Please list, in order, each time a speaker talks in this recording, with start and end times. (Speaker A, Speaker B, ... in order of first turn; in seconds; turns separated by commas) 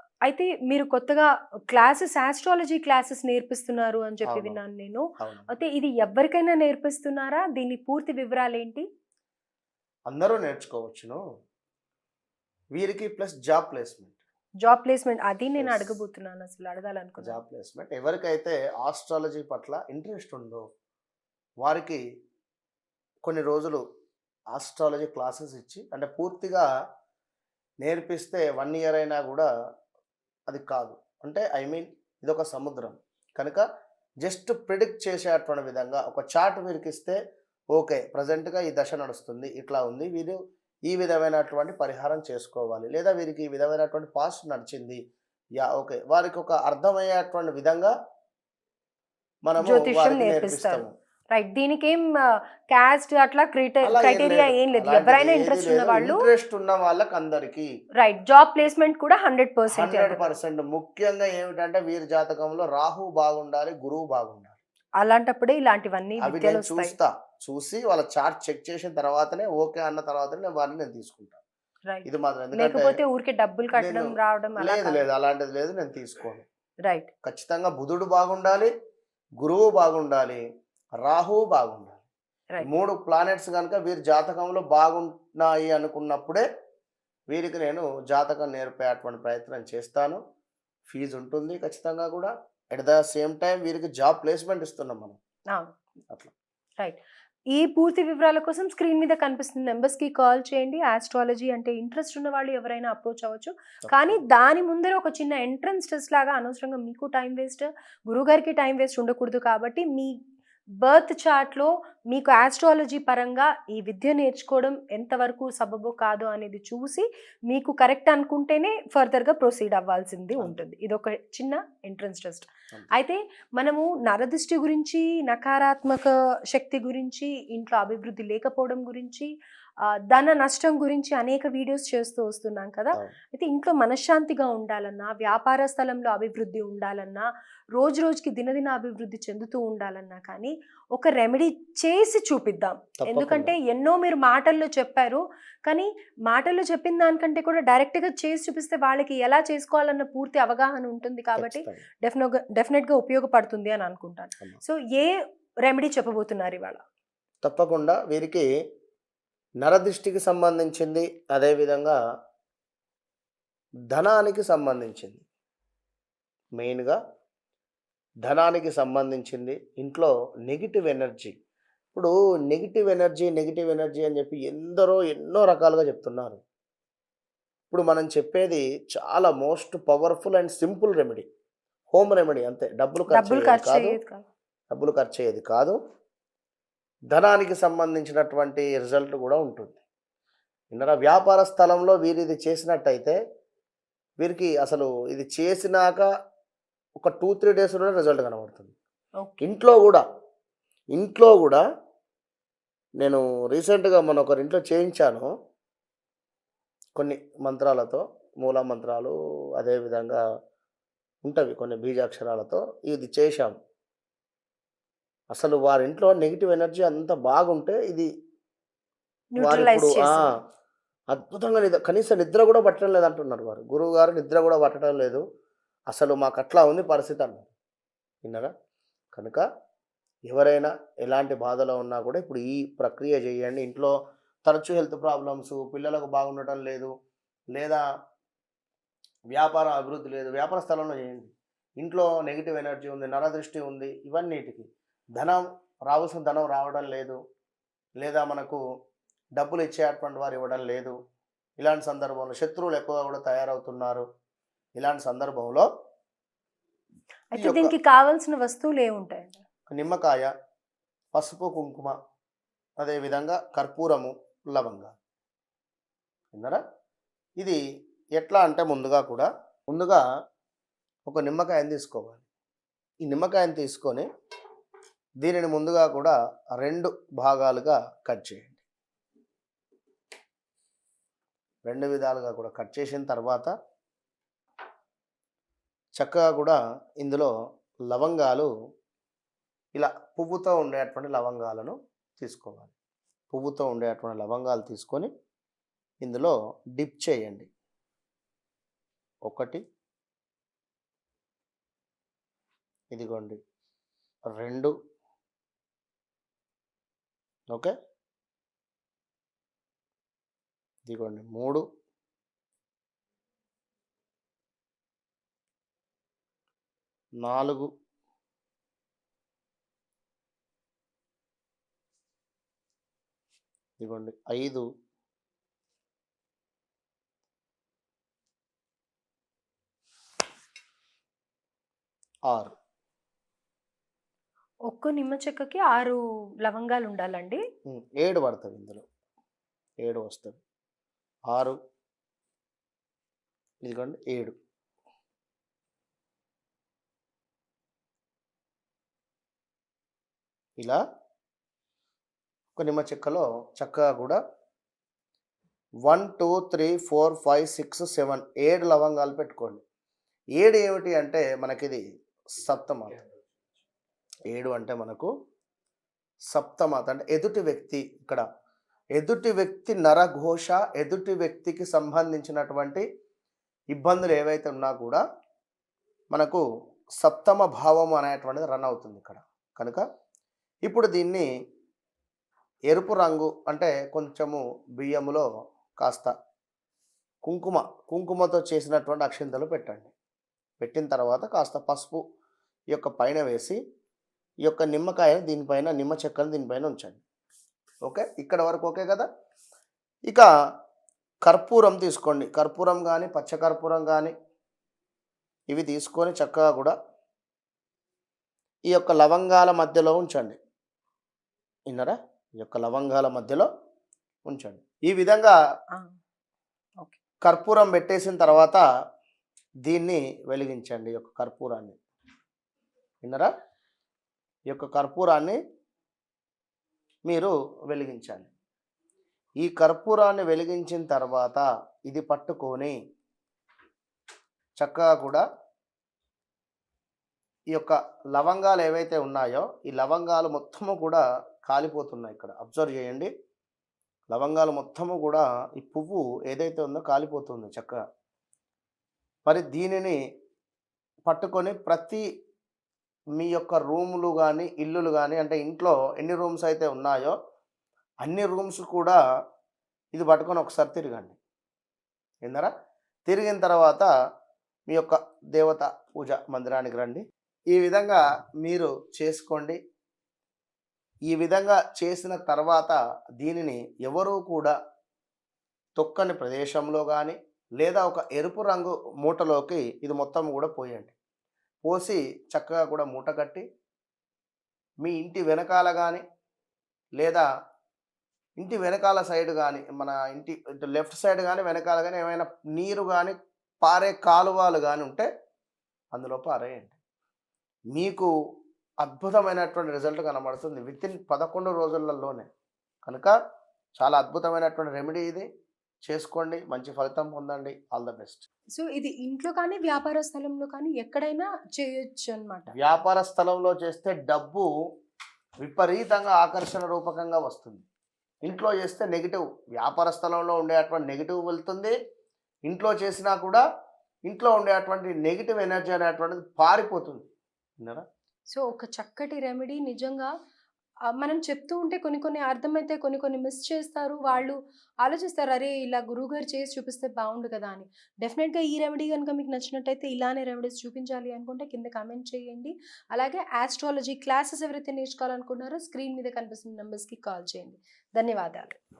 Speaker A: 0.2-8.8, Speaker B: 4.2-4.6, Speaker B: 5.2-5.5, Speaker B: 10.1-11.2, Speaker B: 12.7-14.2, Speaker A: 14.6-17.4, Speaker B: 15.6-16.0, Speaker B: 17.2-20.6, Speaker B: 21.6-22.0, Speaker B: 23.2-23.8, Speaker B: 24.5-26.6, Speaker B: 27.8-29.5, Speaker B: 30.5-33.6, Speaker B: 34.2-37.2, Speaker B: 37.7-45.0, Speaker B: 45.6-47.9, Speaker B: 49.5-50.9, Speaker A: 49.6-52.1, Speaker A: 52.7-56.2, Speaker B: 53.8-57.7, Speaker A: 58.0-60.4, Speaker B: 59.7-64.6, Speaker A: 65.0-66.9, Speaker B: 66.2-71.4, Speaker A: 71.9-75.0, Speaker B: 72.0-73.0, Speaker B: 73.7-76.4, Speaker B: 77.2-78.7, Speaker B: 79.4-80.4, Speaker B: 81.0-82.0, Speaker B: 82.6-86.4, Speaker B: 87.3-90.2, Speaker B: 90.9-95.2, Speaker A: 97.5-110.1, Speaker B: 103.8-104.2, Speaker A: 110.8-129.3, Speaker A: 130.0-156.8, Speaker B: 143.0-143.5, Speaker B: 151.4-151.8, Speaker B: 157.4-158.5, Speaker B: 159.6-162.0, Speaker B: 163.9-165.2, Speaker B: 166.6-167.0, Speaker B: 168.2-171.3, Speaker B: 171.9-176.4, Speaker B: 177.7-181.2, Speaker B: 181.9-184.0, Speaker A: 183.1-184.2, Speaker B: 184.7-185.8, Speaker B: 187.1-189.8, Speaker B: 190.7-193.2, Speaker B: 194.2-196.1, Speaker B: 197.0-198.7, Speaker A: 199.2-199.4, Speaker B: 199.4-200.0, Speaker B: 200.9-201.6, Speaker B: 203.0-205.3, Speaker B: 206.9-210.2, Speaker B: 211.2-213.5, Speaker B: 215.3-218.1, Speaker A: 219.3-220.3, Speaker B: 219.4-220.3, Speaker B: 221.1-225.2, Speaker B: 225.9-227.5, Speaker B: 228.2-228.5, Speaker B: 229.1-229.4, Speaker B: 230.3-233.9, Speaker B: 234.4-236.9, Speaker B: 237.5-237.8, Speaker B: 239.3-247.2, Speaker B: 248.0-248.6, Speaker B: 249.3-250.9, Speaker B: 251.6-254.1, Speaker B: 254.8-255.7, Speaker A: 257.3-259.4, Speaker B: 257.4-257.7, Speaker B: 259.7-260.3, Speaker B: 261.1-261.9, Speaker B: 262.8-264.9, Speaker B: 266.3-266.6, Speaker B: 268.1-270.0, Speaker B: 271.1-272.2, Speaker B: 273.0-274.1, Speaker B: 275.2-278.6, Speaker B: 281.6-283.5, Speaker B: 285.9-287.3, Speaker B: 287.9-288.5, Speaker B: 289.7-292.7, Speaker B: 293.3-295.1, Speaker B: 296.0-297.5, Speaker B: 299.2-299.6, Speaker B: 302.9-303.4, Speaker B: 304.3-304.7, Speaker B: 310.8-311.6, Speaker B: 317.2-317.7, Speaker B: 323.8-324.6, Speaker B: 332.3-332.5, Speaker A: 334.7-337.4, Speaker B: 337.7-338.8, Speaker B: 339.8-340.4, Speaker B: 341.3-341.6, Speaker B: 343.6-344.3, Speaker B: 352.6-354.2, Speaker B: 355.9-359.6, Speaker B: 360.4-361.8, Speaker B: 362.4-363.0, Speaker B: 364.3-365.1, Speaker B: 366.3-368.2, Speaker B: 368.9-372.8, Speaker B: 373.7-375.0, Speaker B: 376.1-376.4, Speaker B: 377.0-379.8, Speaker B: 380.6-381.3, Speaker B: 382.7-385.2, Speaker B: 385.8-386.1, Speaker B: 387.2-389.9, Speaker B: 390.6-392.0, Speaker B: 392.7-393.6, Speaker B: 394.4-397.0, Speaker B: 397.8-399.1, Speaker B: 401.2-404.1, Speaker B: 405.5-406.7, Speaker B: 408.7-410.4, Speaker B: 411.7-413.5, Speaker B: 414.2-415.3, Speaker B: 417.2-418.6, Speaker B: 419.6-421.8, Speaker B: 423.0-423.3, Speaker B: 424.5-425.4, Speaker B: 427.0-428.3, Speaker B: 429.4-432.8, Speaker B: 434.6-435.2, Speaker B: 437.5-443.1, Speaker B: 444.1-447.8, Speaker B: 449.3-450.0, Speaker B: 451.0-452.0, Speaker B: 453.2-457.1, Speaker B: 458.0-459.0, Speaker B: 459.9-461.2, Speaker B: 462.2-462.5, Speaker B: 463.1-463.9, Speaker B: 464.7-469.6, Speaker B: 471.1-474.5, Speaker B: 475.8-480.9, Speaker B: 481.6-483.4, Speaker B: 484.8-486.0, Speaker B: 487.0-487.3, Speaker B: 488.4-495.1, Speaker B: 495.9-496.8, Speaker B: 497.7-498.1, Speaker B: 498.8-502.2, Speaker B: 502.8-503.1, Speaker B: 503.8-505.3, Speaker B: 505.8-508.2, Speaker A: 508.5-512.5, Speaker B: 512.5-514.5, Speaker B: 515.4-517.6, Speaker B: 518.2-521.7, Speaker B: 522.5-523.4, Speaker B: 524.1-527.1, Speaker A: 528.3-530.1, Speaker A: 530.9-548.6